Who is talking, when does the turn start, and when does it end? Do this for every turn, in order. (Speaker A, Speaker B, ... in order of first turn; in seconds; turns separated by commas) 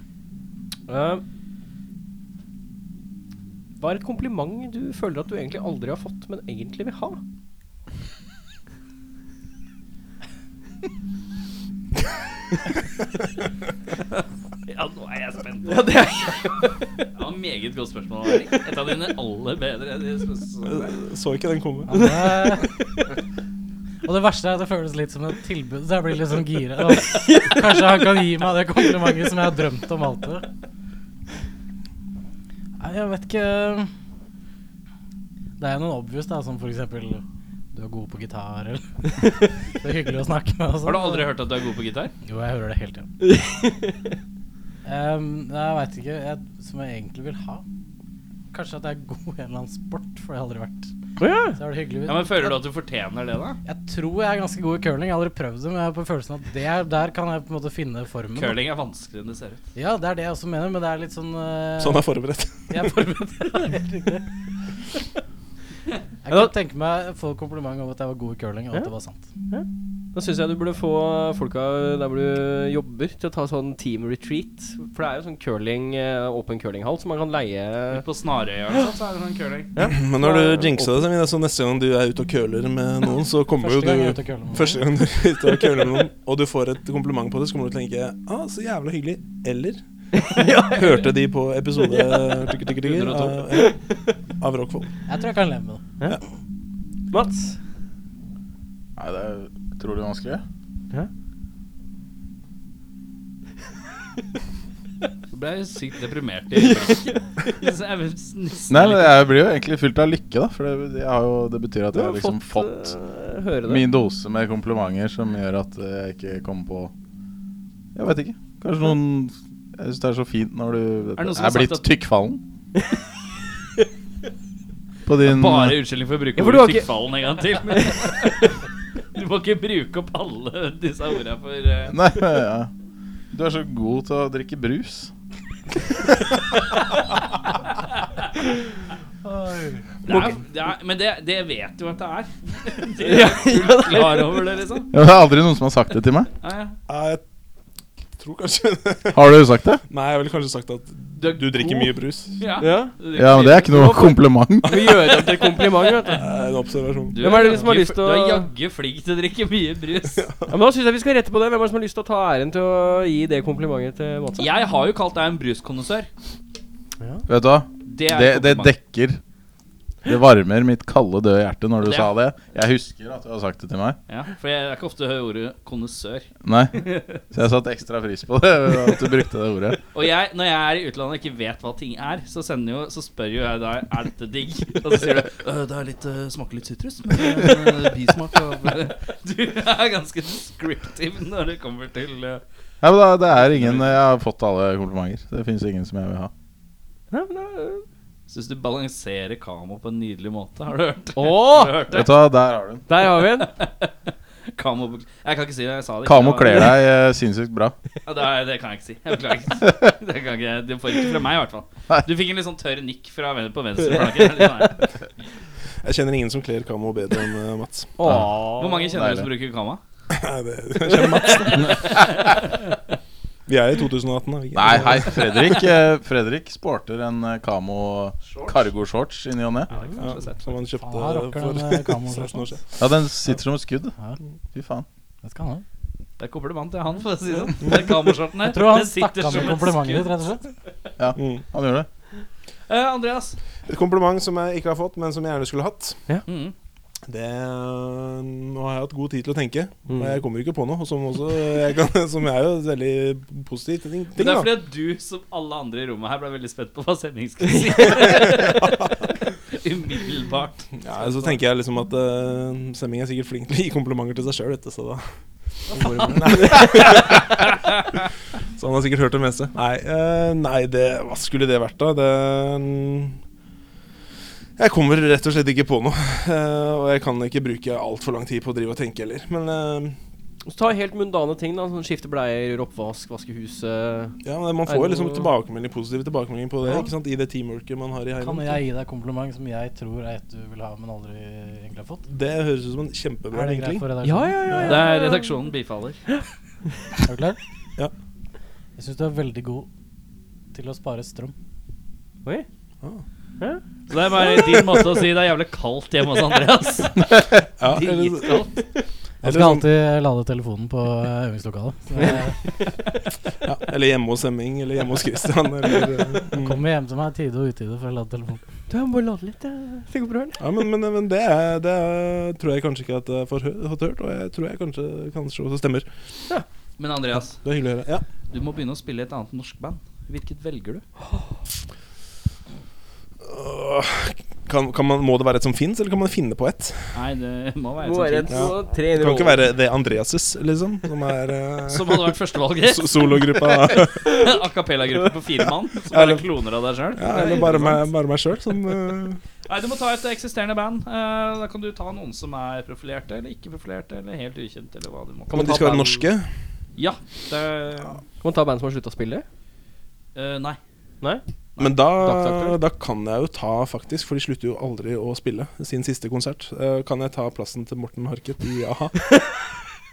Speaker A: 0.9-1.2, Speaker A: 3.8-7.2, Speaker B: 14.7-16.0, Speaker A: 15.7-16.7, Speaker B: 17.1-21.0, Speaker C: 20.7-22.1, Speaker D: 21.9-22.8, Speaker D: 24.0-30.5, Speaker A: 27.1-27.6, Speaker D: 32.8-33.9, Speaker D: 35.6-41.3, Speaker B: 40.9-42.1, Speaker D: 42.2-43.1, Speaker A: 43.2-44.1, Speaker D: 44.9-47.6, Speaker D: 48.5-50.9, Speaker A: 51.2-51.6, Speaker D: 51.5-52.6, Speaker B: 52.1-53.6, Speaker D: 53.6-58.6, Speaker B: 58.4-59.6, Speaker D: 59.8-62.0, Speaker C: 61.8-62.7, Speaker D: 62.7-64.3, Speaker D: 66.3-69.3, Speaker A: 69.5-78.0, Speaker B: 77.9-79.7, Speaker A: 79.8-81.1, Speaker C: 79.9-89.8, Speaker D: 83.6-84.8, Speaker A: 90.1-91.1, Speaker C: 90.7-93.8, Speaker A: 91.8-92.5, Speaker B: 92.8-93.5, Speaker C: 94.4-94.9, Speaker D: 95.1-95.9, Speaker A: 97.1-97.6, Speaker E: 99.0-100.4, Speaker B: 105.3-109.2, Speaker A: 106.5-107.7, Speaker E: 108.7-112.9, Speaker A: 111.9-113.9, Speaker E: 113.6-116.9, Speaker E: 118.0-122.4, Speaker B: 121.2-121.9, Speaker E: 125.1-125.8, Speaker B: 125.2-128.6, Speaker A: 126.4-126.9, Speaker B: 129.1-132.0, Speaker E: 131.9-132.7, Speaker E: 133.3-135.1, Speaker D: 139.3-139.8, Speaker B: 140.1-144.9, Speaker A: 140.1-140.4, Speaker A: 143.1-144.5, Speaker E: 144.9-146.3, Speaker B: 146.4-146.8, Speaker C: 146.9-147.2, Speaker C: 148.2-149.3, Speaker E: 149.1-149.8, Speaker C: 149.9-152.3, Speaker B: 151.2-154.3, Speaker A: 152.6-153.0, Speaker E: 153.1-154.9, Speaker A: 154.7-156.3, Speaker C: 154.7-157.7, Speaker B: 157.1-160.2, Speaker A: 157.2-158.5, Speaker C: 160.2-160.5, Speaker A: 160.5-164.5, Speaker B: 164.4-166.1, Speaker E: 167.3-169.2, Speaker B: 167.9-168.7, Speaker E: 170.0-174.0, Speaker B: 171.8-172.1, Speaker B: 174.1-177.2, Speaker E: 176.4-179.8, Speaker B: 179.9-192.4, Speaker E: 192.8-196.3, Speaker B: 193.4-193.9, Speaker A: 197.1-197.8, Speaker B: 198.3-202.1, Speaker A: 201.2-201.9, Speaker E: 201.9-202.8, Speaker A: 202.9-203.5, Speaker B: 203.2-203.9, Speaker B: 204.5-206.7, Speaker E: 206.1-207.8, Speaker B: 208.1-214.9, Speaker C: 215.8-218.0, Speaker A: 218.0-219.0, Speaker E: 218.0-218.3, Speaker B: 218.6-219.8, Speaker E: 218.9-219.3, Speaker C: 220.1-221.8, Speaker B: 221.2-222.5, Speaker E: 221.6-222.3, Speaker C: 223.5-225.5, Speaker E: 224.6-229.7, Speaker B: 228.2-228.6, Speaker B: 229.7-230.4, Speaker C: 230.0-232.7, Speaker D: 230.8-232.5, Speaker E: 232.8-233.9, Speaker E: 234.5-234.8, Speaker D: 235.2-235.6, Speaker B: 236.2-240.1, Speaker D: 238.4-240.5, Speaker E: 241.0-241.9, Speaker C: 241.2-241.4, Speaker B: 242.7-243.4, Speaker C: 243.7-246.0, Speaker B: 246.3-246.5, Speaker C: 247.1-254.5, Speaker A: 249.9-250.2, Speaker B: 254.2-258.9, Speaker A: 257.5-257.8, Speaker B: 259.5-261.3, Speaker C: 260.8-265.0, Speaker C: 265.7-267.4, Speaker A: 265.7-267.1, Speaker C: 268.6-273.2, Speaker C: 274.6-280.0, Speaker A: 280.4-285.3, Speaker C: 284.2-288.6, Speaker A: 286.6-286.9, Speaker D: 288.2-292.1, Speaker C: 292.1-293.9, Speaker D: 293.3-294.7, Speaker A: 294.0-295.4, Speaker B: 294.6-296.0, Speaker D: 297.1-297.4, Speaker D: 298.8-299.7, Speaker D: 300.5-301.3, Speaker B: 303.9-307.1, Speaker A: 304.3-304.6, Speaker C: 307.6-308.4, Speaker B: 307.6-308.6, Speaker D: 309.2-312.4, Speaker C: 309.2-309.6, Speaker C: 313.4-316.6, Speaker D: 316.3-318.4, Speaker A: 318.7-320.4, Speaker C: 320.4-325.9, Speaker B: 326.8-327.5, Speaker C: 327.4-328.0, Speaker B: 328.3-330.8, Speaker A: 331.0-331.3, Speaker C: 333.2-337.0, Speaker B: 336.9-338.5, Speaker A: 337.8-339.4, Speaker C: 338.3-344.3, Speaker B: 341.7-347.9, Speaker C: 345.9-346.3, Speaker C: 347.0-349.2, Speaker B: 349.5-355.6, Speaker A: 355.3-356.1, Speaker C: 355.3-356.3, Speaker B: 356.8-358.0, Speaker A: 358.2-359.2, Speaker B: 360.1-360.6, Speaker C: 361.6-369.0, Speaker A: 362.0-362.6